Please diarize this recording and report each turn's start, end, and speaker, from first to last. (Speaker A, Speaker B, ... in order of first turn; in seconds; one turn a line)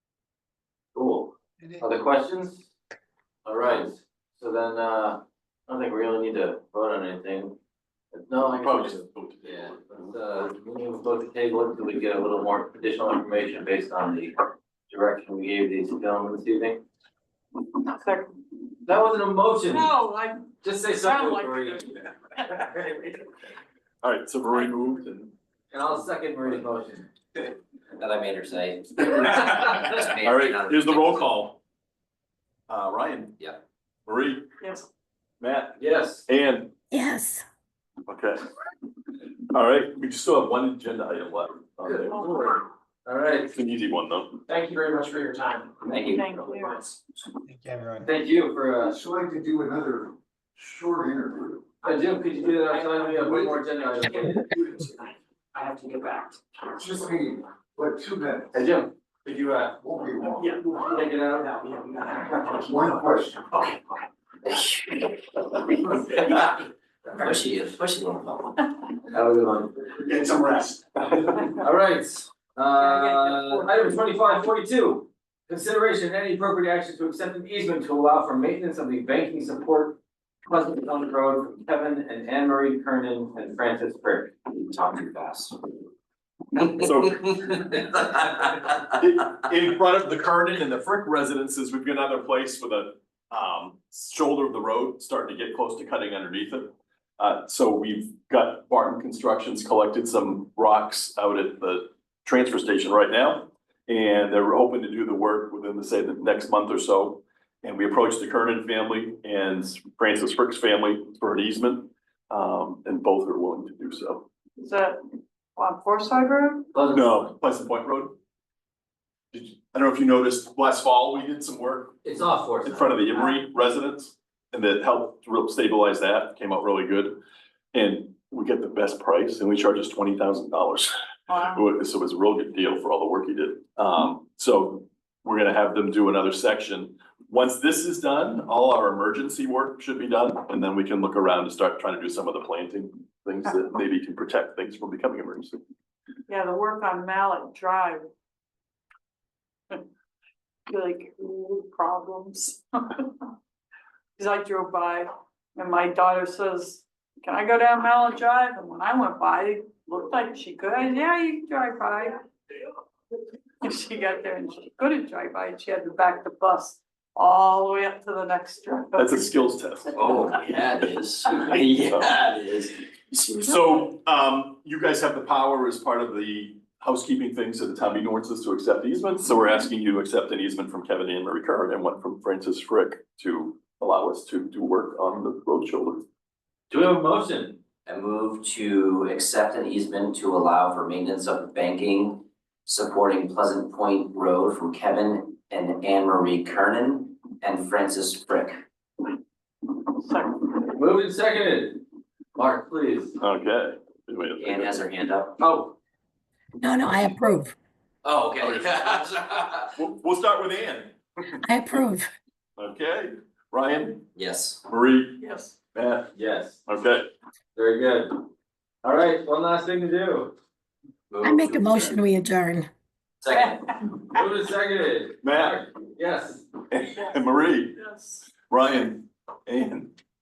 Speaker A: 0.9-2.7
Speaker A: 3.4-7.5
Speaker A: 8.1-16.8
Speaker B: 8.6-10.1
Speaker C: 17.9-18.3
Speaker A: 18.8-19.9
Speaker C: 19.7-22.1
Speaker A: 20.6-21.9
Speaker A: 22.6-23.2
Speaker B: 24.0-25.3
Speaker A: 25.7-27.1
Speaker D: 28.0-31.3
Speaker B: 29.0-31.6
Speaker B: 32.7-33.4
Speaker B: 34.1-34.5
Speaker C: 34.6-34.9
Speaker B: 35.4-36.7
Speaker A: 35.8-36.2
Speaker E: 36.9-37.4
Speaker B: 38.1-38.4
Speaker B: 39.5-42.3
Speaker A: 41.8-43.5
Speaker B: 43.5-44.4
Speaker F: 44.5-47.0
Speaker D: 45.9-46.2
Speaker C: 46.1-46.8
Speaker A: 48.0-49.0
Speaker G: 48.9-51.6
Speaker A: 51.8-54.5
Speaker F: 51.8-56.4
Speaker G: 56.8-58.5
Speaker A: 58.5-59.8
Speaker G: 59.8-60.5
Speaker F: 60.4-60.8
Speaker A: 60.8-61.6
Speaker F: 61.3-63.0
Speaker G: 62.6-63.4
Speaker D: 67.1-68.6
Speaker A: 69.1-69.9
Speaker G: 70.3-70.7
Speaker A: 71.6-84.3
Speaker C: 72.8-74.2
Speaker D: 84.5-85.5
Speaker D: 86.6-87.3
Speaker B: 86.8-87.8
Speaker B: 88.4-114.2
Speaker C: 114.6-115.0
Speaker C: 115.5-116.7
Speaker A: 116.7-117.3
Speaker B: 116.9-118.1
Speaker B: 119.3-122.0
Speaker A: 122.0-123.3
Speaker B: 122.6-127.2
Speaker B: 127.7-145.6
Speaker C: 131.3-131.6
Speaker C: 146.3-148.1
Speaker C: 150.7-153.1
Speaker C: 154.2-162.2
Speaker C: 163.6-169.2
Speaker B: 168.9-170.2
Speaker D: 170.0-172.7
Speaker B: 170.8-172.1
Speaker B: 173.1-186.0
Speaker A: 186.7-187.6
Speaker D: 187.8-198.6
Speaker C: 200.0-200.5
Speaker A: 200.7-201.8
Speaker A: 202.3-203.2
Speaker B: 203.2-204.8
Speaker D: 204.4-205.3
Speaker A: 205.4-205.7
Speaker E: 206.6-207.5
Speaker D: 208.0-209.7
Speaker B: 208.4-209.1
Speaker B: 209.7-210.9
Speaker E: 211.5-212.1
Speaker B: 212.6-214.1
Speaker D: 214.2-214.6
Speaker B: 214.7-216.1
Speaker A: 216.1-216.6
Speaker B: 216.6-217.1
Speaker A: 217.5-218.2
Speaker A: 218.8-220.3
Speaker D: 221.1-221.9
Speaker E: 221.2-222.7
Speaker D: 223.2-223.6
Speaker A: 224.1-226.4
Speaker B: 225.2-225.6
Speaker B: 226.7-227.8
Speaker C: 227.8-228.2
Speaker B: 228.3-229.9